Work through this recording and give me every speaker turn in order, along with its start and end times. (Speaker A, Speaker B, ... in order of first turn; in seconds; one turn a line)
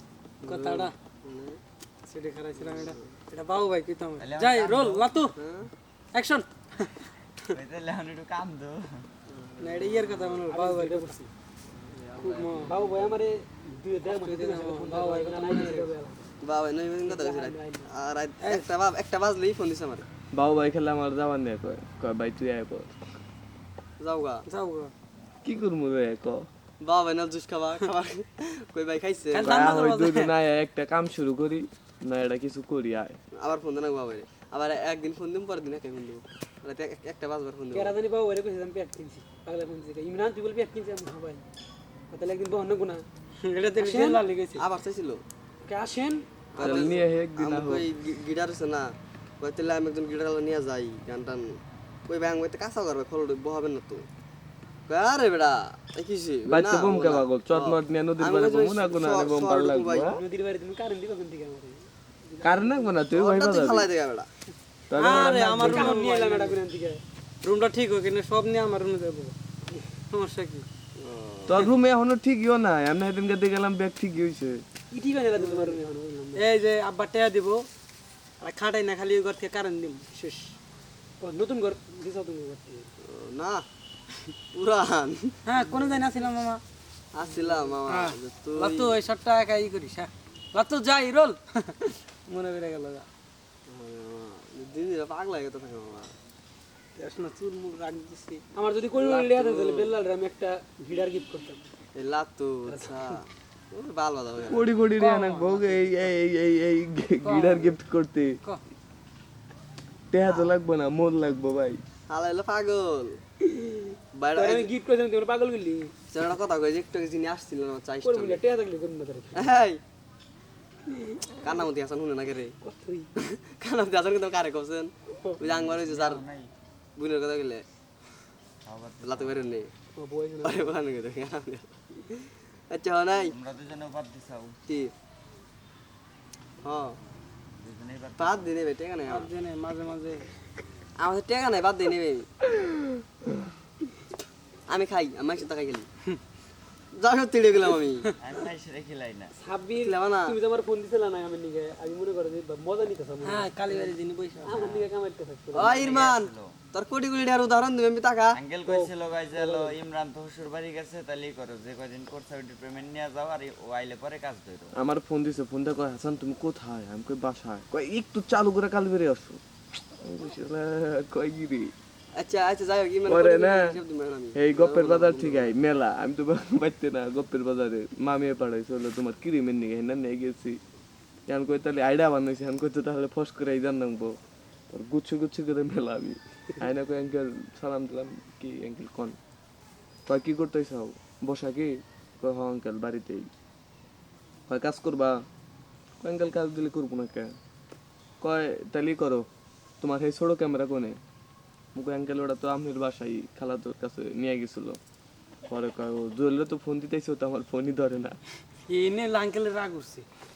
Speaker A: 0.4-1.6
Speaker B: 0.5-0.9
Speaker B: 2.1-5.3
Speaker A: 2.5-3.1
Speaker C: 4.2-5.1
Speaker A: 5.3-5.7
Speaker B: 6.1-7.1
Speaker C: 7.5-9.1
Speaker A: 9.3-10.4
Speaker B: 9.6-11.2
Speaker D: 10.5-11.3
Speaker A: 11.7-13.2
Speaker D: 12.2-16.3
Speaker B: 14.1-15.9
Speaker A: 16.4-20.1
Speaker D: 17.0-17.9
Speaker B: 18.4-18.7
Speaker E: 20.3-23.0
Speaker A: 24.0-24.4
Speaker B: 24.5-24.9
Speaker E: 25.4-26.5
Speaker A: 26.8-29.8
Speaker B: 29.3-30.3
Speaker E: 29.5-33.2
Speaker A: 33.3-38.0
Speaker D: 37.7-41.4
Speaker D: 42.1-43.1
Speaker B: 43.4-44.6
Speaker D: 43.8-44.2
Speaker A: 44.6-45.2
Speaker D: 45.7-46.3
Speaker A: 46.5-54.1
Speaker E: 46.6-47.9
Speaker A: 54.9-60.1
Speaker E: 56.5-60.2
Speaker D: 60.1-62.9
Speaker E: 62.4-63.9
Speaker A: 63.1-64.3
Speaker E: 64.9-66.0
Speaker B: 65.0-66.6
Speaker D: 65.1-67.0
Speaker B: 67.4-69.4
Speaker B: 70.0-70.7
Speaker A: 71.0-71.7
Speaker E: 71.5-74.6
Speaker D: 74.9-76.4
Speaker B: 75.3-75.8
Speaker B: 76.3-77.7
Speaker B: 78.4-80.1
Speaker D: 80.1-80.5
Speaker D: 81.2-82.9
Speaker A: 83.0-83.7
Speaker A: 84.5-85.4
Speaker B: 85.5-86.6
Speaker A: 87.1-89.0
Speaker B: 87.9-93.1
Speaker A: 93.7-96.1
Speaker B: 97.0-98.5
Speaker D: 98.5-101.6
Speaker A: 99.0-99.9
Speaker A: 102.0-104.6
Speaker D: 102.7-103.2
Speaker E: 104.4-108.4
Speaker B: 104.9-106.0
Speaker B: 107.2-107.8
Speaker E: 110.1-111.8
Speaker A: 112.1-113.2
Speaker A: 114.1-114.7
Speaker D: 114.4-115.9
Speaker A: 116.1-118.4
Speaker D: 118.0-119.5
Speaker A: 119.3-119.8
Speaker A: 121.4-122.6
Speaker D: 122.6-123.1
Speaker A: 123.2-126.2
Speaker D: 125.1-125.4
Speaker C: 125.4-126.5
Speaker A: 127.0-127.7
Speaker C: 128.7-129.5
Speaker A: 129.0-129.7
Speaker D: 129.9-130.7
Speaker A: 130.4-133.3
Speaker C: 133.1-134.6
Speaker A: 134.7-134.9
Speaker A: 136.6-137.0
Speaker C: 137.6-138.6
Speaker A: 138.2-139.3
Speaker B: 139.1-140.3
Speaker A: 141.0-142.3
Speaker A: 144.7-145.9
Speaker A: 146.9-148.1
Speaker C: 148.2-149.3
Speaker D: 149.4-156.0
Speaker A: 149.8-150.4
Speaker B: 153.2-154.8
Speaker A: 155.5-158.4
Speaker C: 155.6-156.6
Speaker C: 158.3-164.7
Speaker D: 158.7-159.8
Speaker E: 164.7-169.4
Speaker E: 170.0-171.7
Speaker A: 172.2-175.6
Speaker E: 173.1-173.8
Speaker E: 174.3-180.6
Speaker E: 181.3-184.2
Speaker E: 184.7-189.2
Speaker E: 190.1-193.3
Speaker E: 194.5-195.2
Speaker E: 196.0-197.3
Speaker E: 198.2-199.3
Speaker E: 199.8-201.0
Speaker E: 201.8-204.8
Speaker E: 205.5-208.2
Speaker B: 208.7-210.1